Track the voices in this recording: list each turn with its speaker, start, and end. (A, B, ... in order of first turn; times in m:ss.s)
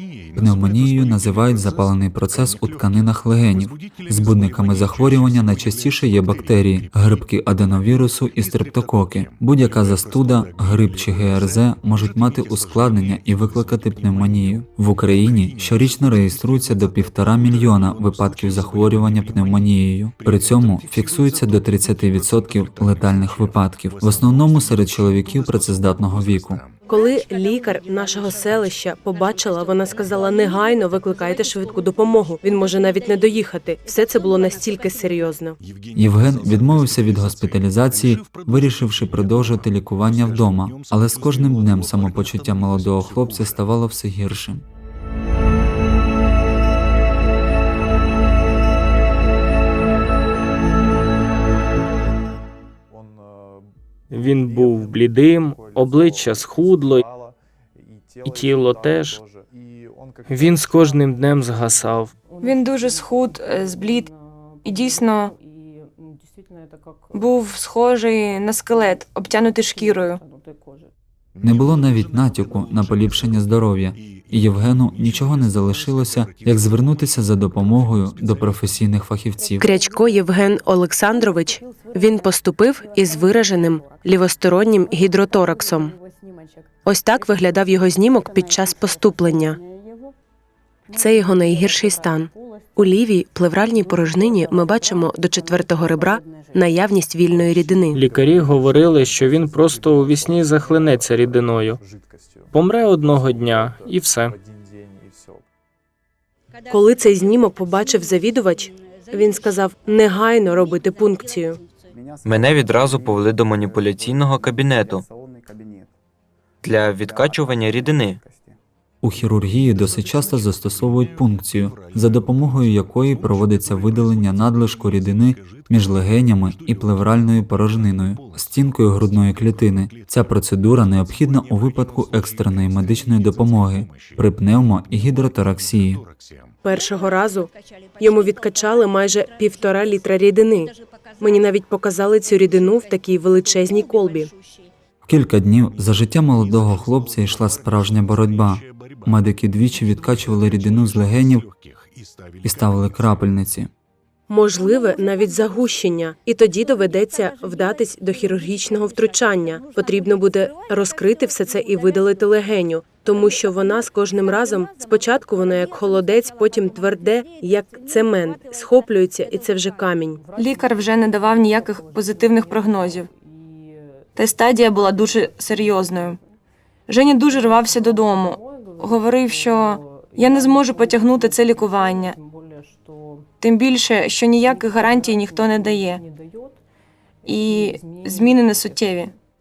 0:00.3-0:26.6 A
0:26.9-0:35.6 B
0:35.9-0:44.6 A
0:54.1-0:57.0 C
0:58.2-0:59.2 C
1:00.3-1:02.1 C
1:02.4-1:04.1 D
1:04.6-1:05.3 D
1:07.1-1:10.2 D
1:11.4-1:19.6 A
1:19.6-1:25.9 B
1:26.8-1:29.6 B
1:30.9-1:38.0 B
1:37.9-1:41.8 C
1:42.5-1:44.4 C
1:46.7-1:51.6 B
1:52.2-1:55.0 E
1:56.6-1:58.2 E
1:59.0-2:16.0 A
2:16.6-2:24.3 B
2:25.0-2:31.5 A
2:32.4-2:33.7 A
2:34.3-2:50.2 B
2:50.4-2:53.1 D
2:54.2-2:56.2 D
2:56.9-3:02.2 D
3:03.4-3:06.0 D
3:07.2-3:09.1 D